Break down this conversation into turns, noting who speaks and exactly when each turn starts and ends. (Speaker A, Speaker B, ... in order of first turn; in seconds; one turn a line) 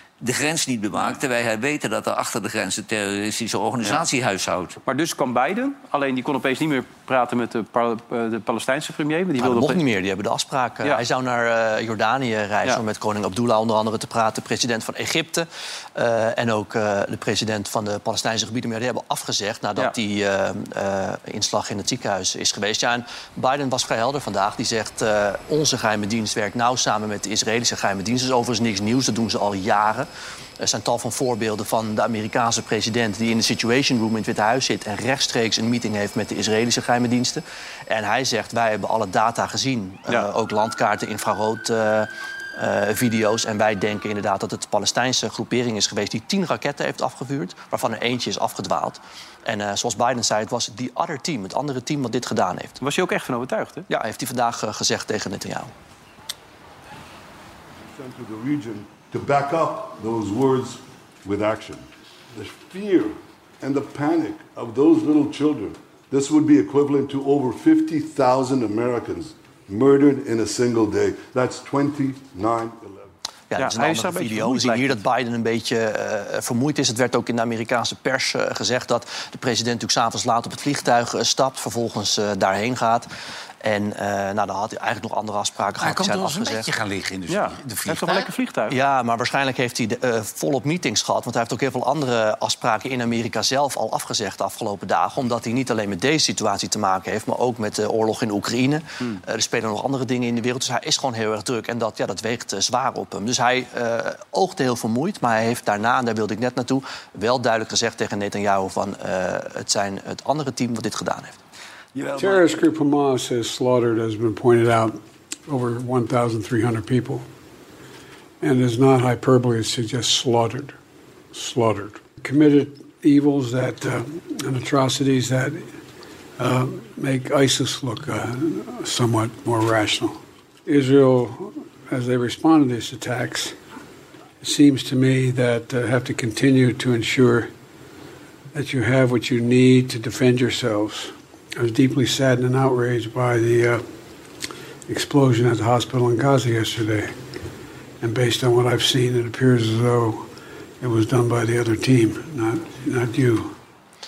Speaker A: 0.2-4.8
Speaker B: 4.8-9.8
Speaker C: 9.4-30.1
Speaker C: 30.6-52.8
Speaker B: 52.8-53.9
Speaker C: 53.9-55.7
Speaker D: 57.8-73.1
Speaker C: 73.5-83.1
Speaker B: 73.6-75.0
Speaker C: 83.6-86.7
Speaker E: 85.8-88.3
Speaker B: 87.3-88.8
Speaker C: 88.7-111.4
Speaker A: 111.9-112.6
Speaker F: 112.2-117.2
Speaker F: 118.4-120.8
Speaker F: 121.3-125.7
Speaker F: 126.4-133.6
Speaker F: 134.4-137.5
Speaker F: 138.5-143.8
Speaker F: 144.9-147.1
Speaker F: 148.0-150.3
Speaker F: 150.8-153.5